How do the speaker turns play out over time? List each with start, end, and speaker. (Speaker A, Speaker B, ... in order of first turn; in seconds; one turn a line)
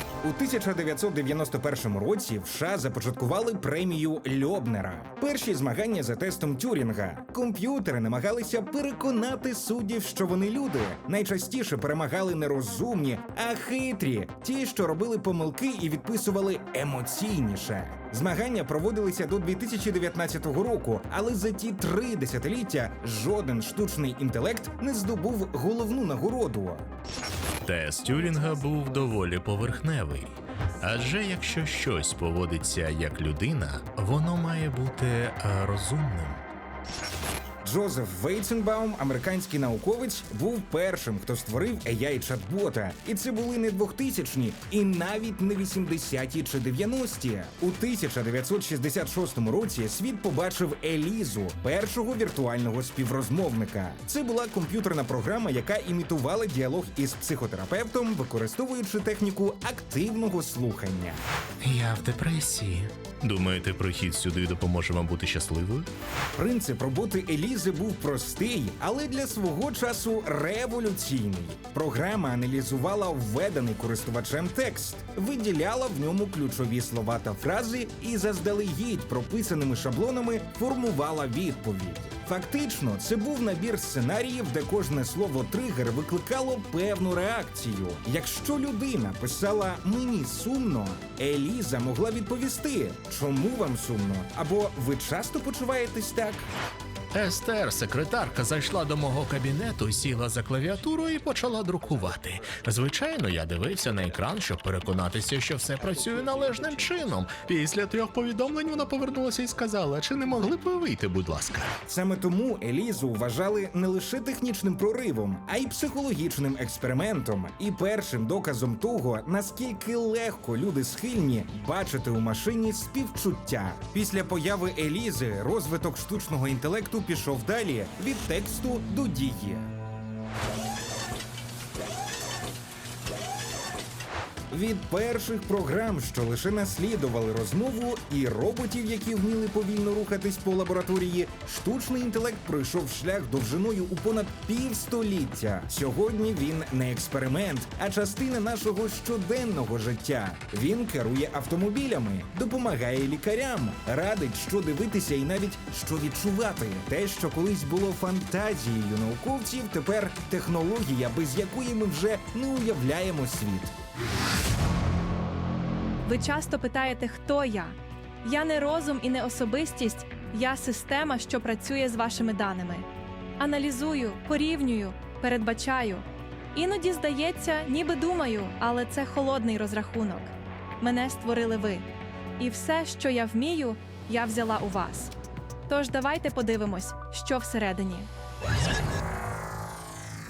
Speaker A: 0.2-26.9
Speaker B: 27.6-30.3
Speaker B: 30.8-36.4
Speaker A: 37.6-61.2
Speaker B: 61.6-65.9
Speaker A: 66.3-96.5
Speaker B: 97.1-111.7
Speaker A: 111.9-129.7
Speaker A: 134.5-163.7
Speaker C: 166.0-172.8
Speaker C: 173.4-181.8
Speaker C: 182.4-185.1
Speaker C: 185.7-188.1